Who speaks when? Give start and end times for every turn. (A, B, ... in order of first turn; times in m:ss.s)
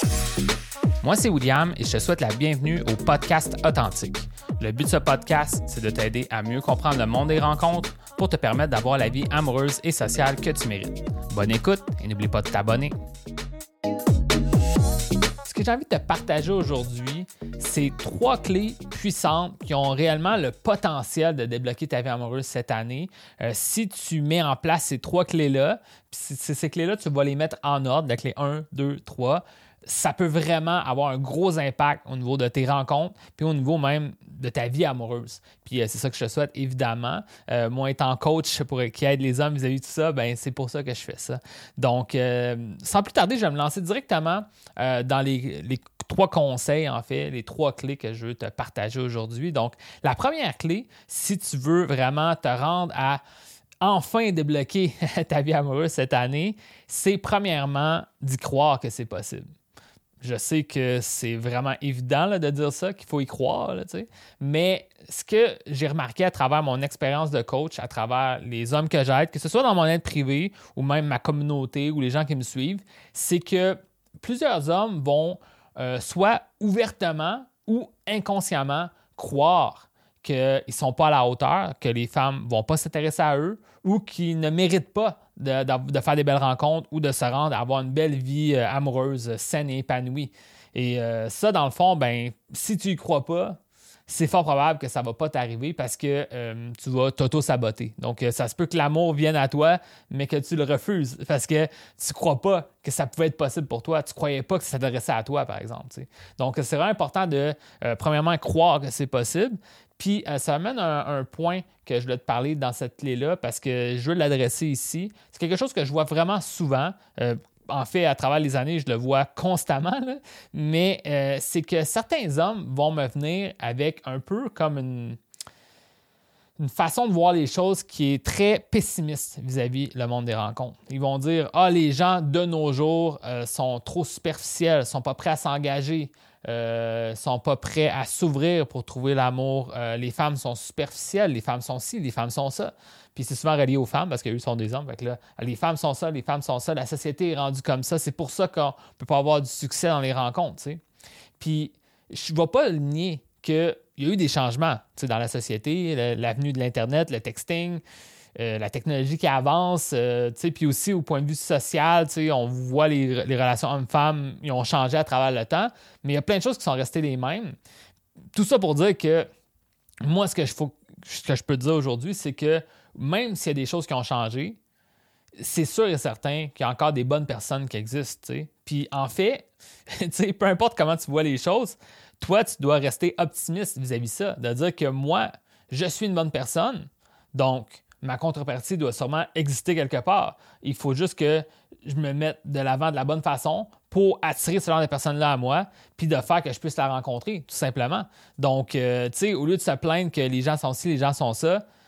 0:01.0-0:12.9 A
0:15.4-0:53.2 A
0:53.8-0:59.4 A
1:00.2-2:05.2 A
2:06.6-2:30.8 A
2:31.4-2:37.8 A
2:38.4-2:47.6 A
2:48.3-2:49.3 A
2:50.0-2:54.6 A
2:55.4-3:21.6 A